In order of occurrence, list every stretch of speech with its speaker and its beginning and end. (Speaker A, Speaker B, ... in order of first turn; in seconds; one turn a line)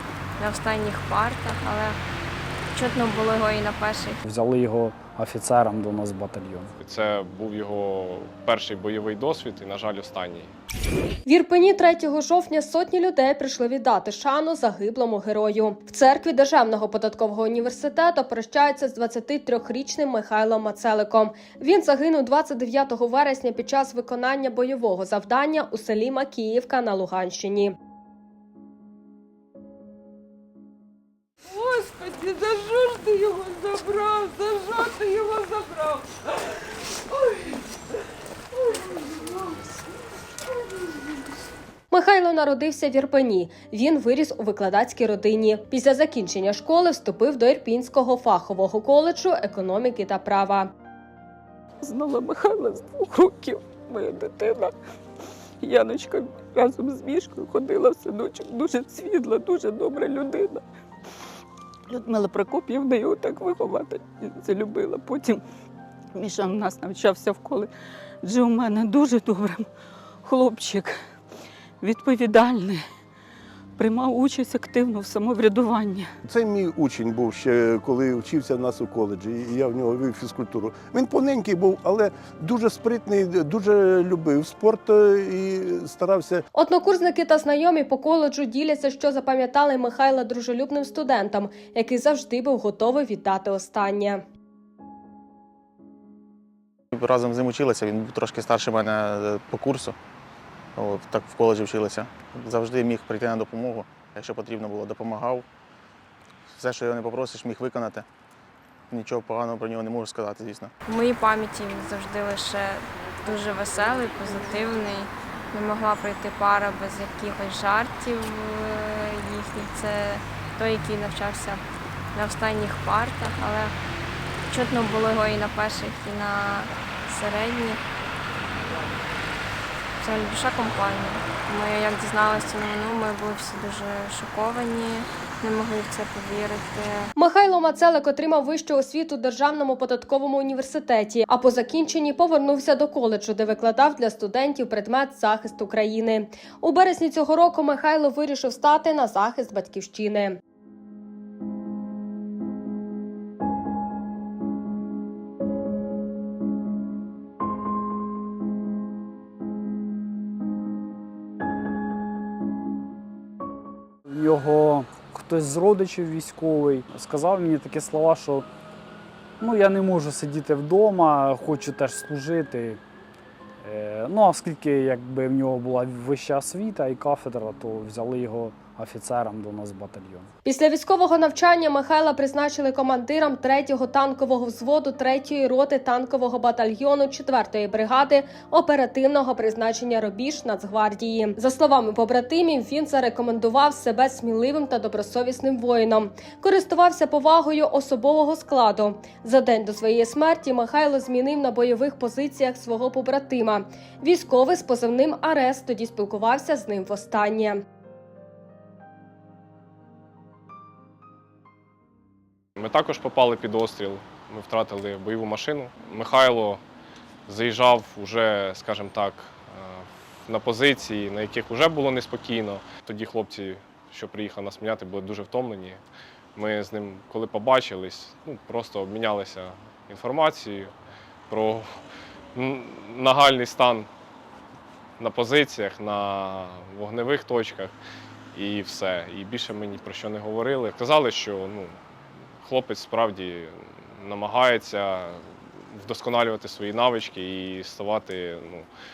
Speaker A: 0.4-2.0
Speaker A: 2.7-4.2
Speaker B: 4.2-6.7
Speaker C: 6.8-10.5
Speaker D: 11.2-27.7
Speaker D: 41.9-50.7
Speaker E: 51.8-54.7
Speaker E: 55.6-60.6
Speaker E: 61.9-65.4
Speaker E: 66.1-67.7
Speaker E: 68.2-69.7
Speaker E: 70.2-71.0
Speaker E: 71.8-72.8
Speaker E: 73.8-76.1
Speaker F: 76.2-86.4
Speaker D: 86.5-94.2
Speaker G: 96.9-100.0
Speaker G: 100.8-105.4
Speaker G: 106.5-108.0
Speaker G: 108.9-110.7
Speaker A: 110.8-121.6
Speaker A: 122.1-123.7
Speaker A: 124.5-127.8
Speaker A: 130.0-137.1
Speaker D: 137.2-150.4
Speaker B: 164.1-168.5
Speaker B: 169.4-172.8
Speaker B: 173.6-180.3
Speaker D: 180.4-207.6
Speaker C: 212.6-216.6
Speaker C: 217.3-225.8
Speaker C: 226.3-230.7
Speaker C: 231.3-231.7
Speaker C: 232.3-233.9
Speaker C: 235.0-237.7
Speaker C: 238.3-241.8
Speaker C: 242.4-248.7